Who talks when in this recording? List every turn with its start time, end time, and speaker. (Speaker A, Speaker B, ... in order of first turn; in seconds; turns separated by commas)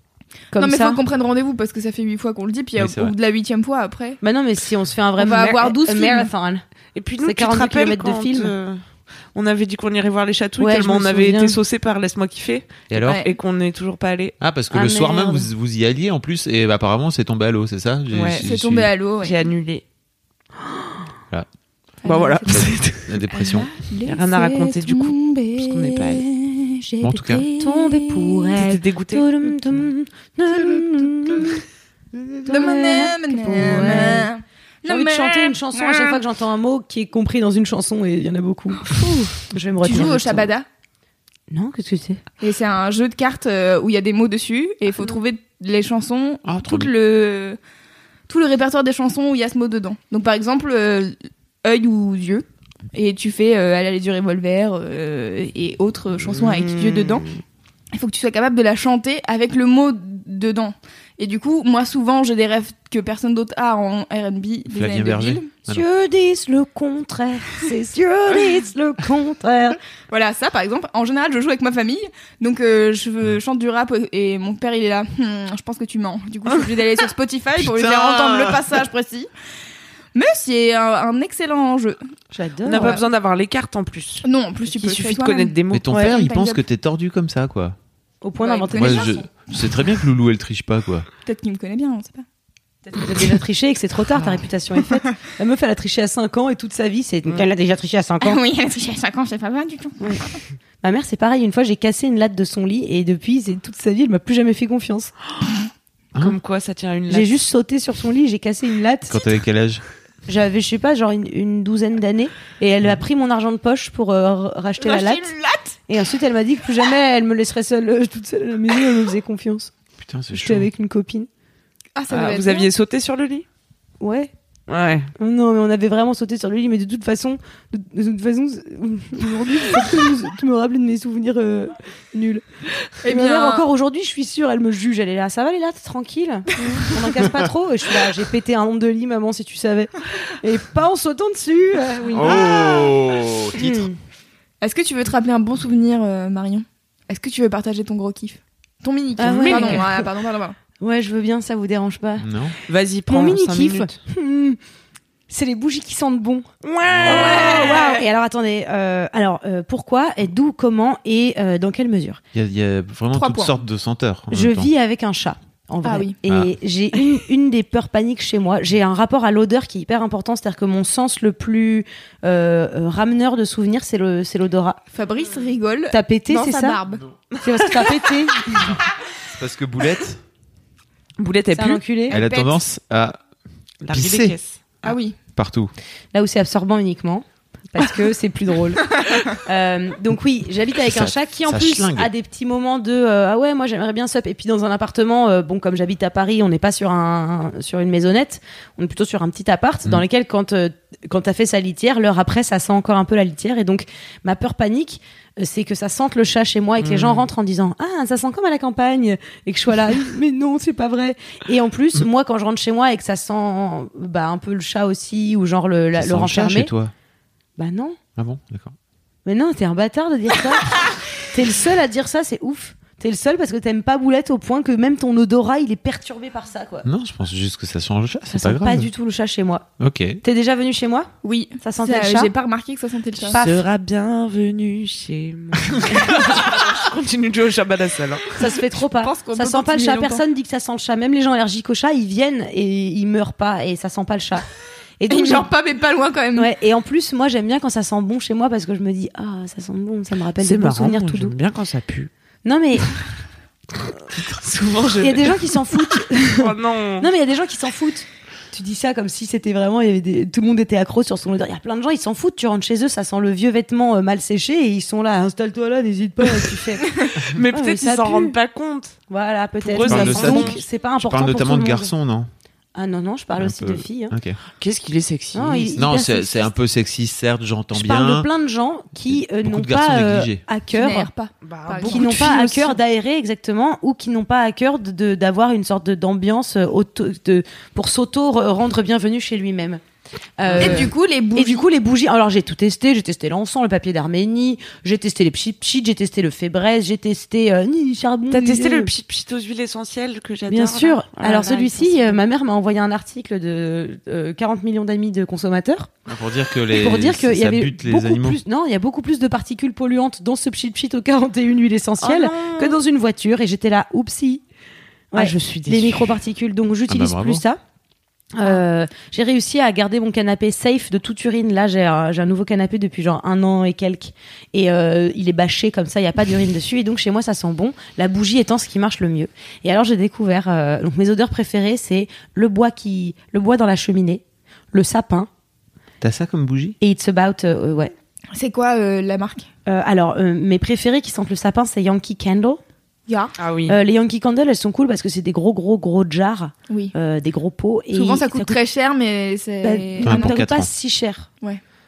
Speaker A: 0.5-1.0, Speaker B: 0.6-4.2, Speaker C: 2.8-3.1, Speaker A: 4.2-6.6, Speaker B: 5.2-6.3, Speaker D: 6.9-8.8, Speaker A: 7.2-8.5, Speaker D: 9.3-14.4, Speaker A: 10.6-11.6, Speaker C: 12.9-13.2, Speaker B: 13.0-13.3, Speaker C: 14.4-18.9, Speaker A: 14.7-15.5, Speaker D: 18.1-18.5, Speaker B: 18.4-19.4, Speaker D: 19.2-19.8, Speaker B: 22.0-22.5, Speaker D: 22.0-23.2, Speaker A: 22.1-22.4, Speaker C: 22.5-23.7, Speaker B: 23.3-26.7, Speaker D: 24.1-26.2, Speaker A: 26.9-31.6, Speaker C: 27.0-27.4, Speaker B: 27.6-28.4, Speaker D: 28.5-29.7, Speaker A: 32.4-34.3, Speaker B: 32.5-36.2, Speaker A: 34.9-40.5, Speaker B: 39.8-40.6, Speaker A: 41.5-42.2, Speaker B: 42.4-47.6, Speaker C: 46.4-46.9, Speaker B: 48.3-57.2, Speaker D: 56.5-57.4, Speaker B: 57.9-65.5, Speaker C: 64.7-65.8, Speaker A: 65.7-69.8, Speaker B: 70.1-79.3, Speaker C: 77.5-78.8, Speaker B: 80.1-82.0, Speaker A: 82.3-83.0, Speaker D: 82.6-85.9, Speaker B: 84.2-86.6, Speaker C: 85.7-87.8, Speaker A: 88.2-89.2, Speaker B: 88.4-89.2, Speaker C: 88.7-91.1, Speaker B: 91.2-92.2, Speaker A: 92.9-98.3, Speaker B: 98.2-100.4, Speaker A: 100.8-105.1, Speaker D: 106.2-107.3, Speaker A: 107.1-109.3, Speaker C: 109.1-109.8, Speaker A: 110.2-115.3, Speaker B: 114.8-115.7, Speaker A: 115.9-119.7, Speaker C: 120.0-120.7, Speaker A: 120.3-121.3, Speaker B: 122.0-122.7, Speaker D: 122.1-123.5, Speaker A: 124.0-124.3, Speaker D: 124.7-125.1, Speaker A: 125.2-132.4, Speaker A: 133.0-142.9, Speaker B: 133.0-133.7, Speaker C: 142.1-143.9, Speaker A: 143.6-143.9, Speaker B: 144.6-150.6, Speaker A: 149.2-150.0, Speaker D: 149.4-149.8, Speaker A: 150.8-152.3, Speaker C: 152.2-152.6, Speaker D: 152.7-154.0, Speaker A: 153.1-154.6, Speaker A: 155.3-156.5, Speaker D: 156.6-158.0, Speaker C: 156.9-157.2, Speaker A: 157.0-162.2, Speaker B: 157.1-157.9, Speaker C: 162.3-164.7, Speaker B: 163.1-163.6, Speaker A: 164.3-174.8, Speaker B: 165.8-166.2, Speaker C: 166.3-166.5, Speaker B: 174.9-177.0, Speaker A: 175.9-176.8, Speaker A: 177.4-178.8, Speaker C: 178.6-180.2, Speaker D: 181.2-181.8, Speaker A: 181.5-182.2, Speaker B: 182.1-182.6, Speaker C: 182.1-183.2, Speaker D: 183.8-184.6, Speaker C: 183.9-185.7, Speaker B: 184.8-185.2, Speaker A: 186.1-216.7, Speaker C: 190.8-192.1, Speaker D: 206.8-207.2, Speaker C: 216.0-216.9, Speaker A: 217.6-218.0, Speaker C: 218.2-218.7, Speaker A: 219.2-226.9, Speaker C: 226.8-228.9, Speaker A: 228.3-229.7, Speaker C: 229.8-230.2, Speaker A: 230.2-231.1, Speaker B: 231.2-233.4, Speaker A: 231.6-232.3, Speaker A: 233.3-233.6, Speaker D: 233.3-238.4, Speaker A: 238.4-244.4, Speaker B: 238.9-240.2, Speaker A: 245.0-245.5, Speaker B: 245.1-246.5, Speaker A: 246.3-251.3, Speaker D: 250.4-252.1, Speaker A: 252.4-252.9, Speaker D: 254.0-257.1, Speaker A: 255.0-268.4, Speaker D: 267.2-269.0, Speaker A: 269.1-271.9, Speaker D: 269.6-270.6, Speaker C: 269.8-272.3, Speaker A: 272.7-274.1, Speaker C: 273.4-274.4, Speaker D: 274.6-275.7, Speaker A: 275.3-276.5, Speaker C: 275.8-278.3, Speaker A: 277.7-281.1, Speaker C: 279.1-280.4, Speaker B: 280.7-282.7, Speaker D: 281.4-282.6, Speaker A: 281.8-289.8, Speaker A: 290.4-298.9, Speaker D: 290.5-290.8, Speaker B: 290.6-291.6, Speaker D: 298.3-302.2, Speaker A: 300.5-305.9, Speaker C: 306.1-308.4, Speaker A: 306.7-314.4, Speaker D: 312.0-312.8, Speaker A: 315.1-317.6, Speaker D: 315.1-316.1, Speaker C: 316.9-317.4, Speaker A: 318.3-335.3, Speaker C: 336.0-336.8, Speaker A: 336.8-337.9, Speaker B: 338.3-339.5, Speaker A: 339.6-342.6, Speaker B: 343.1-343.3, Speaker D: 343.4-343.8, Speaker A: 343.6-348.6, Speaker B: 346.7-346.9, Speaker B: 347.9-350.4, Speaker A: 349.6-351.3, Speaker C: 350.0-350.7